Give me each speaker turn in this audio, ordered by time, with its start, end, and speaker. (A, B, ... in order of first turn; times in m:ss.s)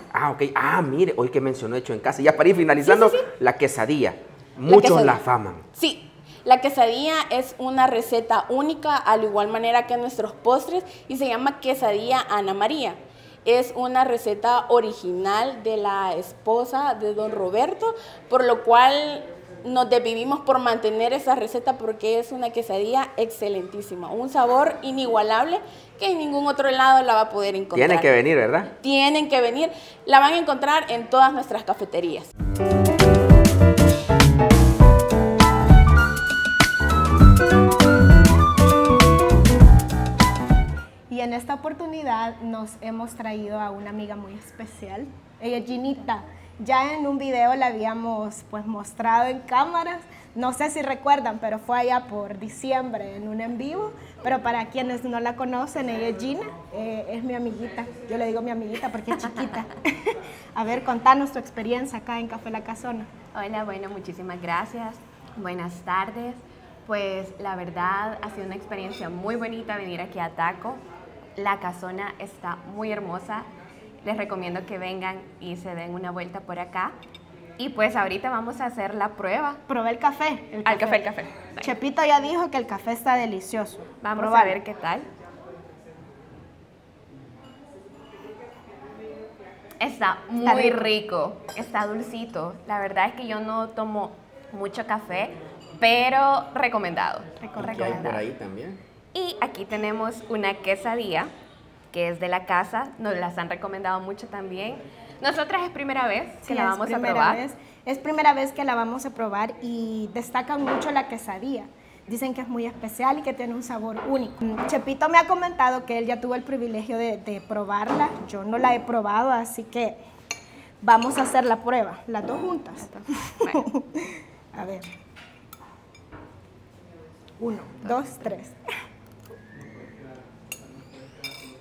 0:00.1-0:05.6 A
0:02.8-0:03.3 B
0:04.7-0:05.2 B
0:05.8-0:28.1 B
0:27.7-0:28.7 A
0:28.6-0:32.3 B
0:41.1-1:03.1 C
0:59.2-0:59.6 D
1:03.3-1:10.8 D
1:11.4-1:13.5 D
1:14.0-1:17.0 D
1:17.6-1:19.6 D
1:19.7-1:21.1 C
1:20.6-1:21.7 D
1:21.6-1:24.6 C
1:24.0-1:25.1 D
1:29.8-1:38.2 D
1:30.4-1:30.9 C
1:37.4-1:38.1 C
1:37.6-1:38.8 A
1:39.1-1:41.3 D
1:41.9-1:47.4 D
1:46.4-2:00.0 C
2:00.8-2:04.9 C
2:02.8-2:03.6 D
2:07.4-2:08.6 C